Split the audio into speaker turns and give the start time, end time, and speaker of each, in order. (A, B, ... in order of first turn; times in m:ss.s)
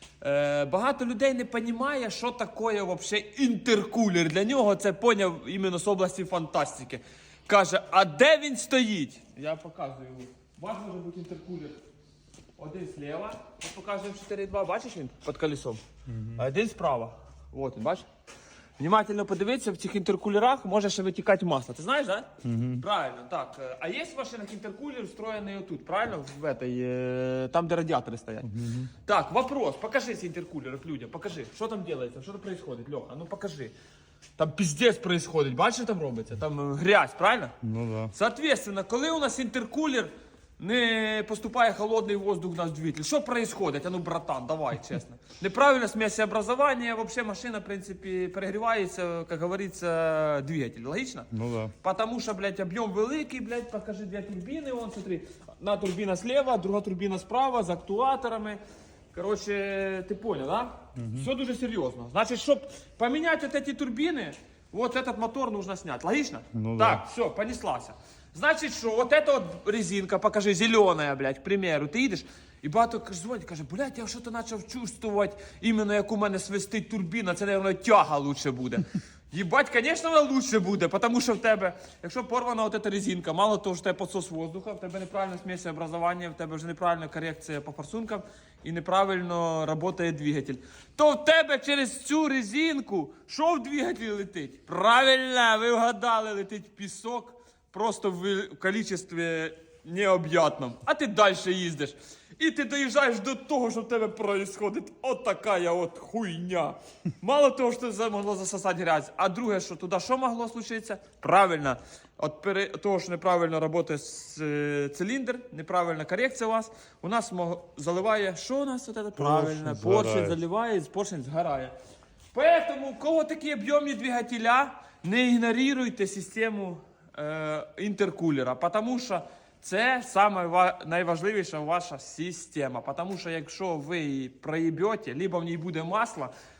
0:00.2-0:11.8 A
0:12.6-0:15.8 A
0:16.3-0:18.0 A
0:18.8-0:33.7 A
0:22.4-0:22.8 B
0:34.4-0:37.6 A
0:37.6-0:38.1 B
0:38.1-0:58.6 A
0:51.4-0:51.7 B
0:59.1-2:01.7 A
1:01.0-1:01.3 B
1:06.6-1:07.0 B
1:59.2-2:00.4 B
2:02.3-2:16.3 A